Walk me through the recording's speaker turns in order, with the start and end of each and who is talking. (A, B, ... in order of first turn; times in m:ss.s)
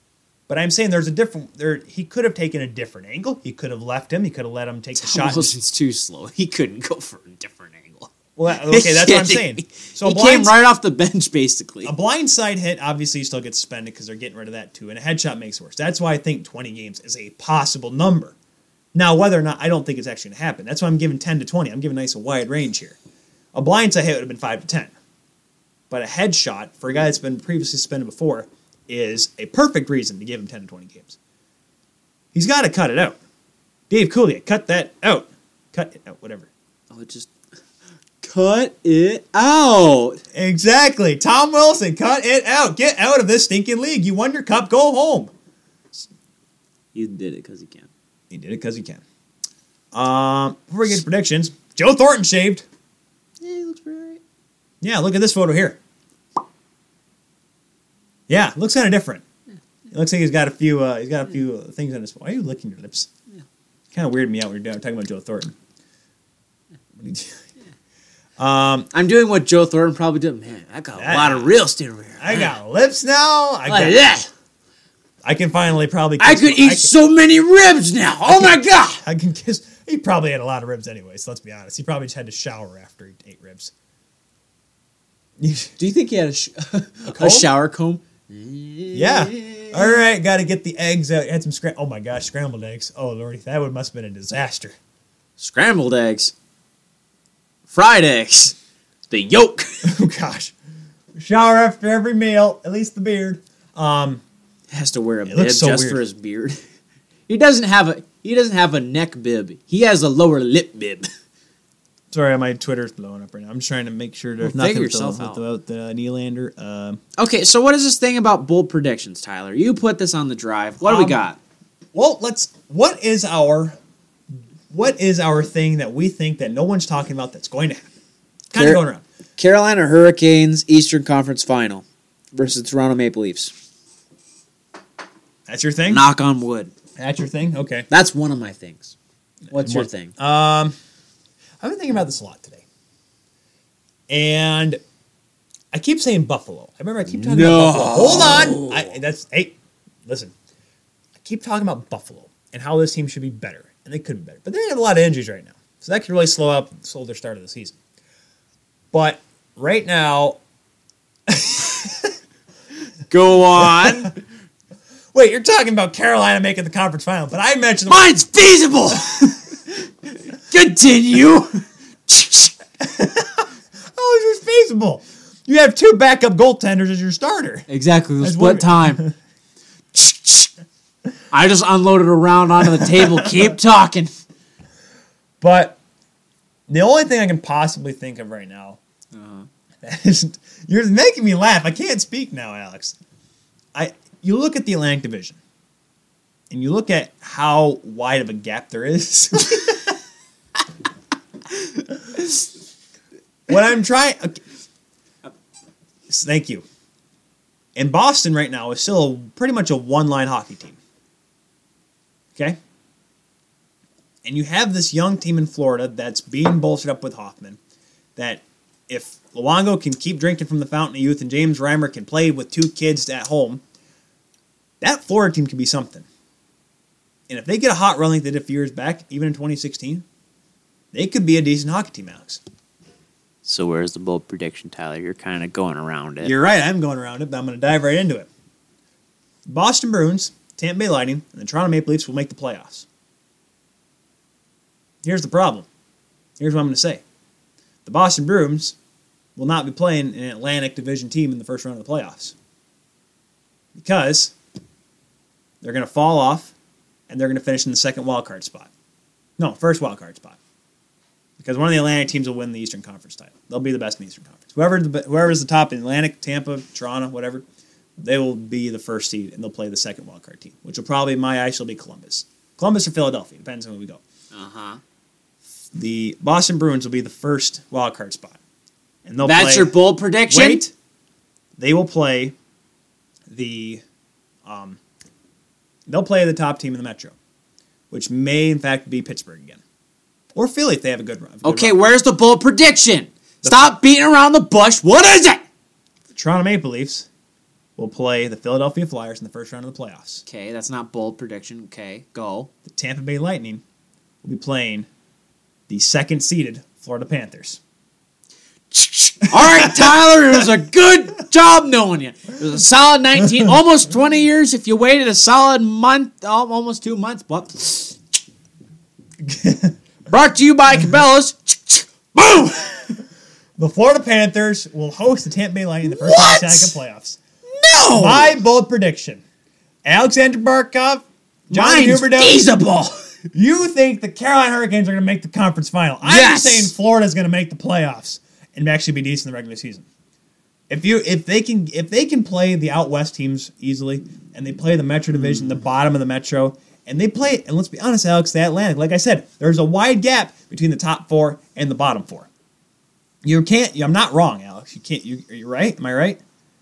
0:00.5-0:05.6 A
0:04.9-0:08.1 B
0:08.4-0:10.5 A
0:08.6-0:11.9 B
0:11.8-0:18.3 A
0:18.9-0:23.0 A
0:23.5-0:24.9 A
0:25.9-0:31.2 A
0:32.3-0:33.2 A
0:33.9-0:36.5 A
0:36.9-0:37.3 B
0:38.2-0:40.2 B
0:40.3-0:45.3 A
0:46.9-0:47.9 B
0:48.3-0:49.0 A
0:49.9-0:52.6 A
0:53.4-0:54.2 B
0:54.8-0:55.8 A
0:58.3-0:59.2 A
0:59.9-1:03.1 A
1:03.9-1:05.5 A
1:07.0-1:07.4 A
1:08.4-1:08.9 A
1:08.9-1:12.5 B
1:11.0-1:11.5 A
1:12.2-1:14.0 A
1:13.7-1:14.3 B
1:15.2-1:16.9 A
1:16.2-1:19.0 B
1:18.3-1:23.7 A
1:25.4-1:25.7 A
1:25.8-1:29.9 B
1:27.0-1:27.5 A
1:28.9-1:34.8 A
1:35.4-1:36.3 B
1:37.7-1:38.6 B
1:39.1-1:39.9 B
1:39.8-1:40.5 A
1:41.1-1:44.2 A
1:44.7-1:46.6 B
1:45.3-1:46.0 A
1:47.3-1:51.1 B
1:52.1-1:57.0 A
1:54.4-1:55.4 B
1:57.2-2:01.4 B
2:00.8-2:01.2 A
2:01.9-2:03.8 A
2:04.7-2:07.9 A
2:08.5-2:09.0 A
2:08.5-2:08.8 B
2:09.4-2:13.5 B
2:15.5-2:16.0 A
2:15.9-2:16.7 B
2:17.0-2:17.9 A
2:17.9-2:18.9 B
2:19.5-2:20.1 B
2:19.5-2:20.7 A
2:21.6-2:22.6 A
2:24.1-2:24.8 A
2:25.7-2:30.3 A
2:27.0-2:28.9 B
2:31.2-2:37.8 A
2:38.9-2:40.4 A
2:41.3-2:42.1 A
2:43.1-2:44.1 B
2:43.6-2:44.0 A
2:45.1-2:48.1 A
2:47.9-2:52.5 B
2:52.8-2:57.6 A
2:57.7-2:59.0 B
2:58.2-2:59.1 A
2:59.9-3:00.5 B
3:01.3-3:04.1 B
3:02.7-3:03.4 A
3:05.4-3:05.8 A
3:06.7-3:08.8 A
3:09.1-3:09.5 B
3:09.8-3:13.0 A
3:13.7-3:15.4 A
3:16.5-3:20.0 A
3:23.5-3:24.4 A
3:26.1-3:26.6 A
3:27.7-3:30.8 A
3:34.2-3:37.6 A
3:38.2-3:43.6 A
3:44.8-3:46.0 A
3:47.3-3:50.0 A
3:50.9-3:52.4 A
3:53.4-3:56.3 B
3:56.2-3:58.3 A
3:59.5-4:02.8 A
4:05.0-4:05.7 A
4:06.4-4:07.0 A
4:07.8-4:08.8 A
4:09.4-4:12.3 A
4:13.7-4:14.3 A
4:15.6-4:16.5 A
4:17.1-4:18.7 A
4:19.4-4:20.4 A
4:21.4-4:27.4 A
4:28.0-4:34.0 A
4:34.3-4:34.8 B
4:35.7-4:38.4 A
4:39.0-4:39.7 A
4:39.2-4:40.6 B
4:40.3-4:40.7 A
4:41.6-4:42.3 A
4:43.3-4:43.8 A
4:44.4-4:44.8 A
4:45.9-4:47.1 A
4:47.9-4:49.6 A
4:50.3-4:51.8 A
4:51.4-4:55.4 B
4:53.4-4:53.7 A
4:56.1-4:57.1 A
4:57.8-5:00.2 A
5:00.2-5:02.5 B
5:02.6-5:03.6 A
5:04.2-5:04.9 A
5:05.7-5:07.6 A
5:08.7-5:18.0 B
5:09.3-5:09.9 A
5:19.2-5:19.7 A
5:20.1-5:22.9 B
5:23.6-5:27.2 A
5:25.8-5:26.7 B
5:27.5-5:28.4 B
5:27.9-5:29.2 A
5:29.8-5:32.4 A
5:31.5-5:33.0 B
5:33.3-5:39.8 A
5:36.0-5:36.7 B
5:40.7-5:52.3 A
5:53.2-5:56.2 A